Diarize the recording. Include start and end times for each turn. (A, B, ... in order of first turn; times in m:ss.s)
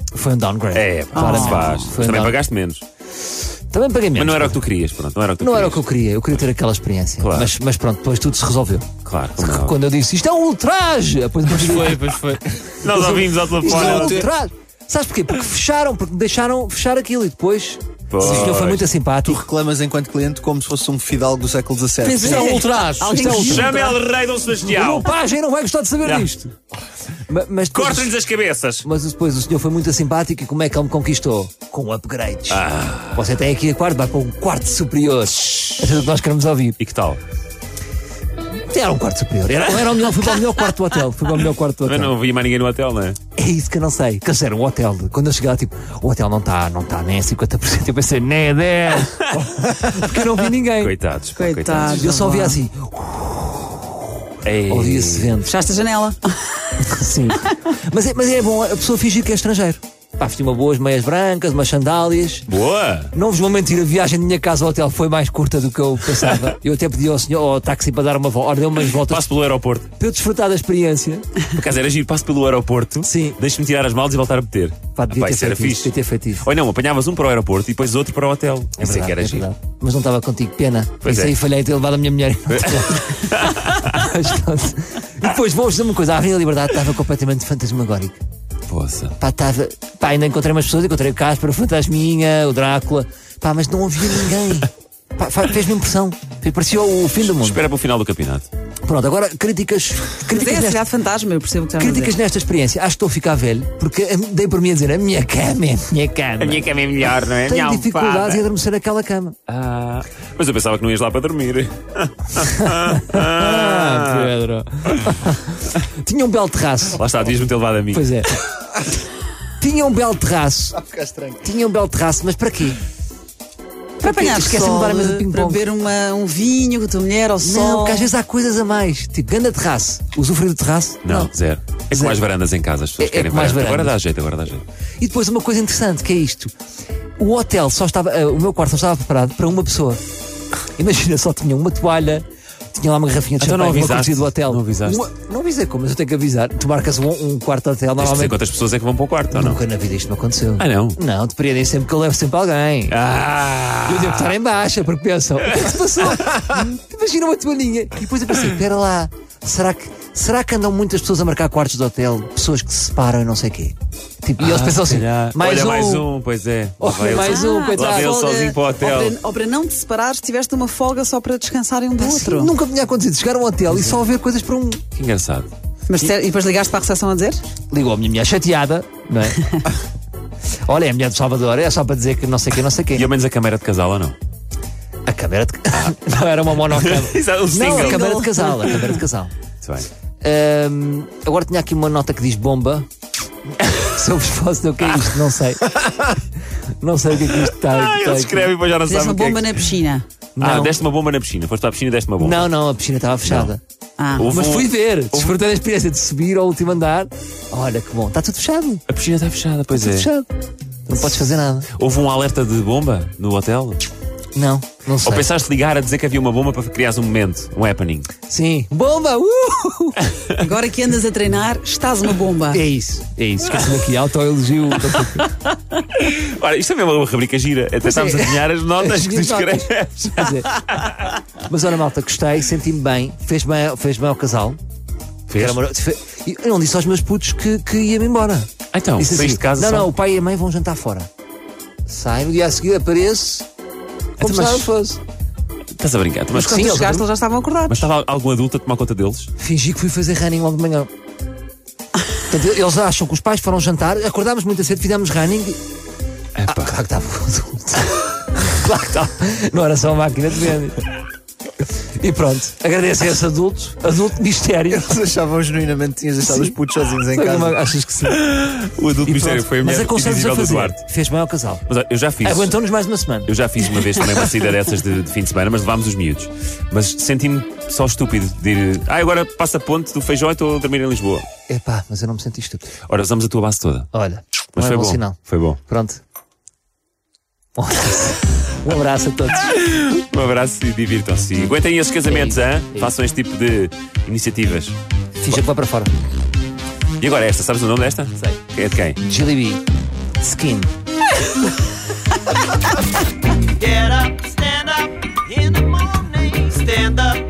0:00.1-0:02.4 A
0:00.7-0:02.8 B
0:01.1-0:01.8 C
0:03.7-0:04.6 A
0:04.1-0:05.8 B
0:05.4-0:12.2 A
0:07.2-0:07.5 B
0:09.0-0:09.7 B
0:11.6-0:14.2 B
0:12.8-0:19.5 A
0:13.6-0:14.2 D
0:18.1-0:18.8 B
0:18.2-0:18.7 D
0:19.2-0:23.6 D
0:22.0-0:24.0 C
0:22.4-0:25.1 B
0:23.1-0:23.7 A
0:24.7-0:26.5 A
0:26.0-0:26.3 B
0:27.3-0:28.1 A
0:27.7-0:28.8 B
0:28.8-0:32.6 A
0:32.5-0:33.2 B
0:33.1-0:36.8 A
0:36.8-0:37.2 B
0:38.7-0:42.1 A
0:41.8-0:43.2 B
0:43.4-0:50.9 A
0:50.8-0:52.2 B
0:51.3-0:52.6 C
0:51.8-0:54.1 A
0:54.4-0:55.4 B
0:54.7-0:55.5 A
0:55.4-0:56.7 C
0:56.8-1:02.5 A
1:02.5-1:03.1 B
1:03.1-1:09.2 A
1:09.0-1:09.9 B
1:10.0-1:11.3 A
1:11.5-1:19.5 B
1:13.0-1:13.4 A
1:15.0-1:16.4 A
1:18.8-1:28.2 A
1:21.0-1:21.4 B
1:22.5-1:24.0 B
1:28.7-1:29.2 B
1:29.2-1:37.6 A
1:37.2-1:38.5 B
1:38.8-1:40.8 A
1:40.3-1:42.2 C
1:41.8-1:46.7 A
1:46.4-1:48.4 B
1:47.4-1:49.4 A
1:49.5-1:54.3 B
1:52.8-1:57.0 A
1:56.9-1:58.2 B
1:57.9-1:58.4 A
1:59.6-2:00.8 A
2:00.8-2:01.4 D
2:01.4-2:02.8 A
2:04.0-2:05.6 A
2:04.0-2:08.1 C
2:07.4-2:11.3 A
2:11.0-2:14.6 B
2:11.9-2:12.2 A
2:13.0-2:14.0 A
2:15.0-2:16.5 A
2:17.2-2:20.0 A
2:20.8-2:28.4 A
2:23.4-2:25.0 B
2:28.0-2:29.6 B
2:29.3-2:33.0 A
2:30.6-2:31.0 B
2:32.9-2:34.4 B
2:33.9-2:46.1 A
2:36.0-2:36.4 B
2:44.4-2:49.2 B
2:46.8-2:48.1 A
2:47.1-2:52.5 C
2:52.0-2:54.8 A
2:53.7-2:54.0 B
2:55.0-2:55.5 B
2:55.9-2:57.4 C
2:57.7-2:59.5 A
3:00.6-3:03.1 A
3:02.9-3:04.2 B
3:05.0-3:09.3 A
3:06.7-3:08.1 B
3:07.6-3:09.0 C
3:09.6-3:09.9 B
3:10.2-3:12.9 A
3:13.6-3:16.2 A
3:16.8-3:18.5 A
3:17.3-3:19.7 B
3:18.9-3:20.0 C
3:20.4-3:20.8 A
3:20.4-3:22.5 B
3:22.2-3:23.6 A
3:23.2-3:23.5 B
3:24.0-3:24.3 C
3:24.2-3:25.3 B
3:24.3-3:28.8 A
3:28.9-3:30.1 B
3:29.7-3:30.3 A
3:30.9-3:31.7 A
3:31.7-3:33.8 B
3:34.3-3:35.3 A
3:35.0-3:38.1 B
3:38.3-3:40.1 A
3:40.3-3:42.6 C
3:42.5-3:45.3 A
3:45.9-3:51.1 B
3:47.8-3:50.5 A
3:51.4-3:54.6 A
3:55.3-3:55.6 B
3:55.3-4:01.1 A
3:58.7-3:59.9 B
4:01.9-4:03.4 A
4:04.2-4:05.0 A
4:04.2-4:04.7 B
4:05.8-4:07.0 B
4:06.3-4:07.9 C
4:06.4-4:07.0 A
4:07.6-4:09.3 B
4:09.4-4:10.9 A
4:12.3-4:15.6 A
4:16.4-4:16.7 B
4:16.5-4:20.8 A
4:22.0-4:25.0 A
4:24.7-4:27.6 D
4:26.2-4:26.6 A
4:27.1-4:28.2 A
4:28.1-4:30.8 B
4:29.0-4:31.6 A
4:31.6-4:32.6 B
4:32.2-4:34.0 A
4:33.2-4:41.2 B
4:41.5-4:42.7 A
4:42.8-4:43.9 B
4:43.9-4:46.0 A
4:44.5-4:45.6 B
4:47.6-4:49.5 A
4:49.5-4:54.7 B
4:52.1-4:52.8 A
4:55.2-4:55.9 A
4:57.0-4:59.0 B
4:59.0-4:59.6 A
5:00.2-5:00.7 A
5:03.9-5:04.7 B
5:06.3-5:06.8 B